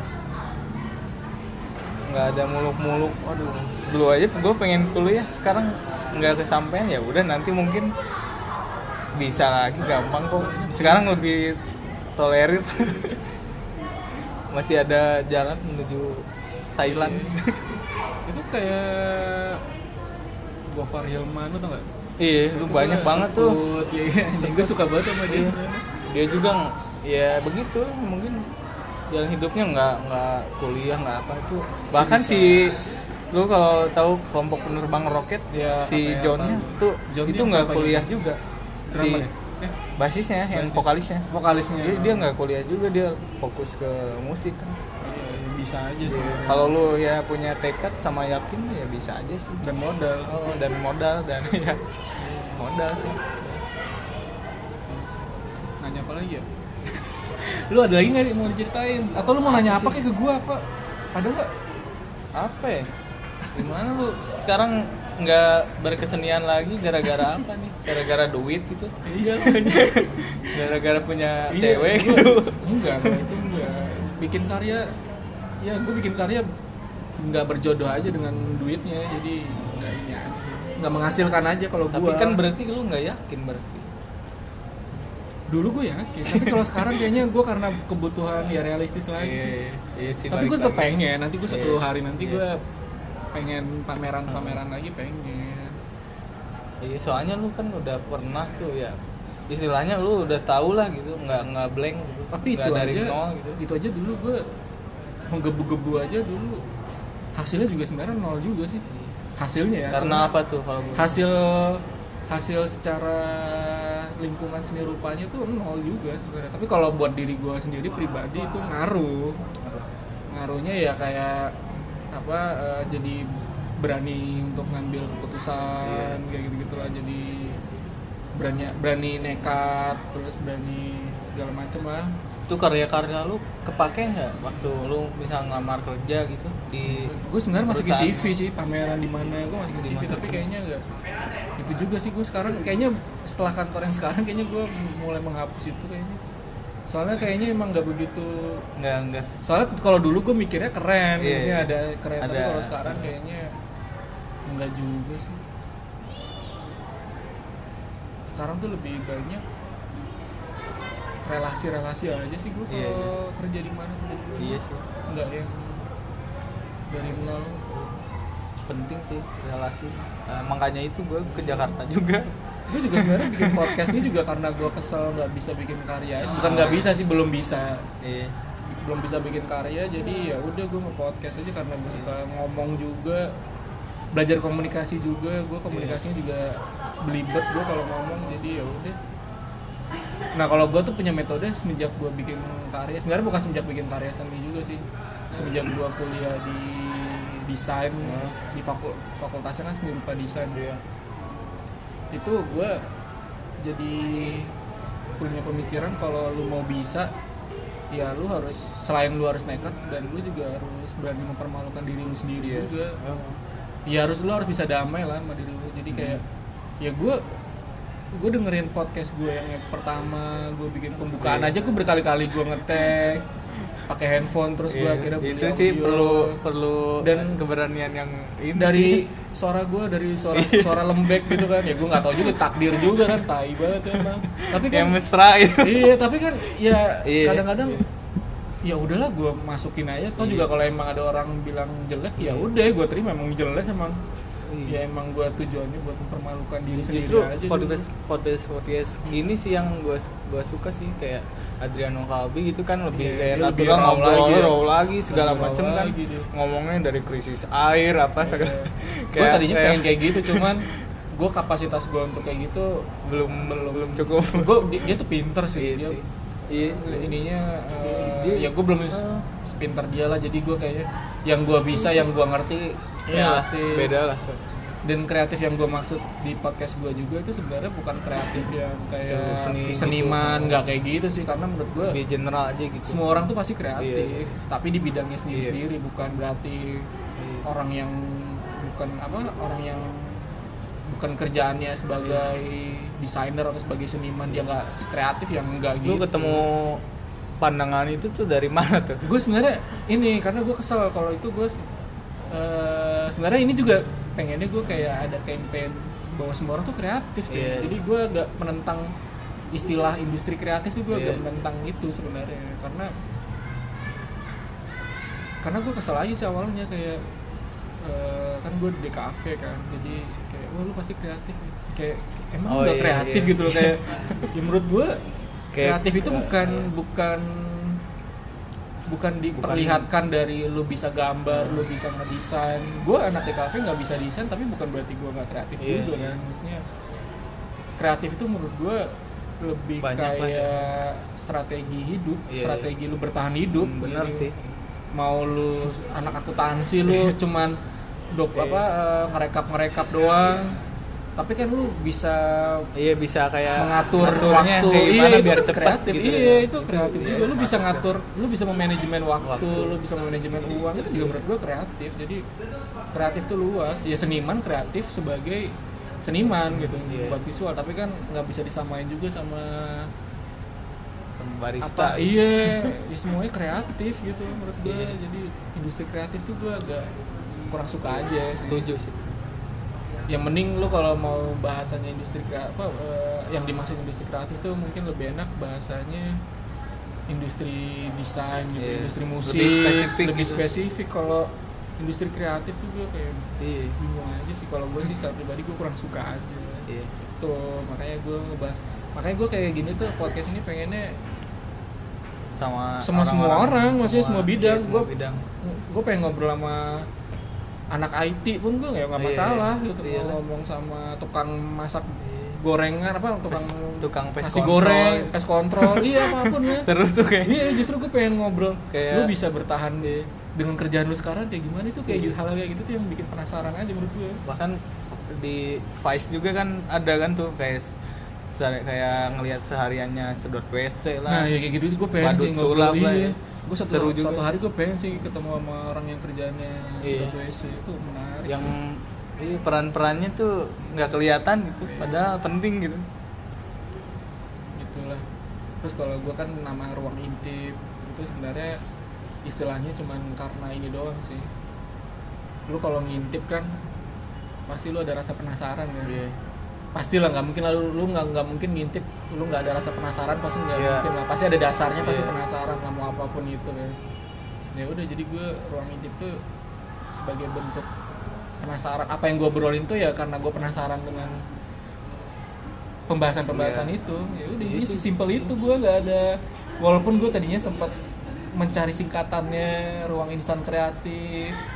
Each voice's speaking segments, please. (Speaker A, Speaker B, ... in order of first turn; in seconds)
Speaker A: 2.0-7.9, 9.1-13.2, 14.5-17.8, 22.2-23.6, 24.3-28.4, 29.1-32.8, 33.3-38.4, 38.9-39.2, 40.0-44.8, 46.0-49.6, 50.2-51.8, 52.5-53.6, 59.4-60.1, 62.4-62.9, 63.5-73.4, 81.9-83.9, 86.3-87.2, 89.2-90.9, 91.5-92.5, 94.3-94.6, 96.8-99.0, 99.5-103.6, 109.9-111.2, 119.6-119.9, 125.8-126.2, 132.5-138.4, 139.7-140.4, 148.8-149.3, 151.2-153.1, 162.7-163.1, 164.4-164.8, 168.7-172.3, 172.8-174.1, 176.3-176.9, 178.0-178.3, 185.7-186.0, 198.0-198.3, 200.5-200.8, 212.4-213.4, 215.9-216.2, 221.2-221.7, 224.7-229.0, 230.3-233.2, 233.9-235.9, 237.0-237.8, 240.2-240.5, 242.2-242.5, 244.5-244.8, 246.8-260.8, 263.0-264.9, 265.5-267.2, 267.8-269.2, 271.7-272.1, 273.1-274.5, 279.0-280.6, 281.8-283.0, 283.8-284.3, 285.3-285.6, 287.2-287.4, 292.0-292.3, 295.8-296.8, 297.4-299.0, 307.3-307.8, 310.9-311.2, 322.4-324.3, 325.5-326.7, 329.3-329.9, 331.3-331.7, 335.6-336.1, 339.8-340.6, 342.3-342.7, 343.5-344.6, 346.9-347.1, 348.3-348.6, 352.7-357.9, 359.2-359.8, 360.9-361.2, 366.5-367.2, 371.1-372.8, 374.6-374.9, 378.3-379.1, 388.6-390.4, 393.4-393.8, 402.3-405.2, 409.0-410.2, 412.0-412.4, 413.3-417.6, 418.7-420.1, 421.9-422.2, 424.2-427.8, 428.3-431.3, 432.0-434.4, 436.8-437.1, 438.2-442.9, 455.8-456.2, 460.5-460.9, 461.8-462.1, 473.3-473.7, 474.4-475.2
Speaker B: 10.3-11.3, 16.8-17.4, 18.2-19.6, 20.7-21.8, 22.5-25.9, 31.9-32.6, 35.5-38.2, 38.9-39.8, 40.5-42.3, 45.0-46.8, 49.6-50.6, 52.2-52.6, 54.9-61.5, 69.0-70.4, 71.5-74.9, 75.6-76.5, 77.2-82.4, 85.5-89.5, 90.3-92.6, 93.3-95.8, 102.3-104.4, 105.3-106.6, 107.3-108.8, 109.4-110.3, 110.9-119.5, 120.3-127.6, 128.3-132.1, 136.8-140.8, 141.6-146.2, 146.9-148.7, 149.4-153.5, 154.5-155.4, 158.3-159.4, 161.2-165.9, 166.9-167.8, 172.7-177.9, 178.6-183.3, 184.1-189.0, 190.3-200.6, 202.1-202.9, 203.6-204.6, 205.2-207.1, 207.9-213.0, 213.9-216.2, 216.8-217.4, 218.1-223.3, 223.8-226.4, 227.0-227.4, 228.5-235.0, 235.6-237.9, 238.6-244.0, 244.7-247.9, 252.9-256.3, 258.2-266.0, 266.8-273.9, 274.8-282.0, 282.9-286.9, 287.4-290.3, 290.9-296.5, 299.0-301.7, 302.3-308.9, 309.5-312.9, 315.4-317.0, 317.8-325.0, 325.6-327.8, 328.9-336.6, 337.8-338.9, 339.4-344.3, 344.9-347.6, 348.1-350.6, 351.2-352.7, 353.6-362.2, 362.9-369.9, 371.6-376.9, 377.5-378.7, 380.1-386.2, 387.1-401.0, 402.8-404.9, 405.4-406.9, 407.7-416.7, 417.2-424.2, 431.1-438.5, 441.7-442.0, 444.6-445.0, 445.6-448.6, 449.2-451.3, 452.5-453.6, 454.5-456.0, 456.7-463.8, 464.5-466.2, 466.9-467.7, 468.4-471.2, 472.9-477.7, 478.3-481.4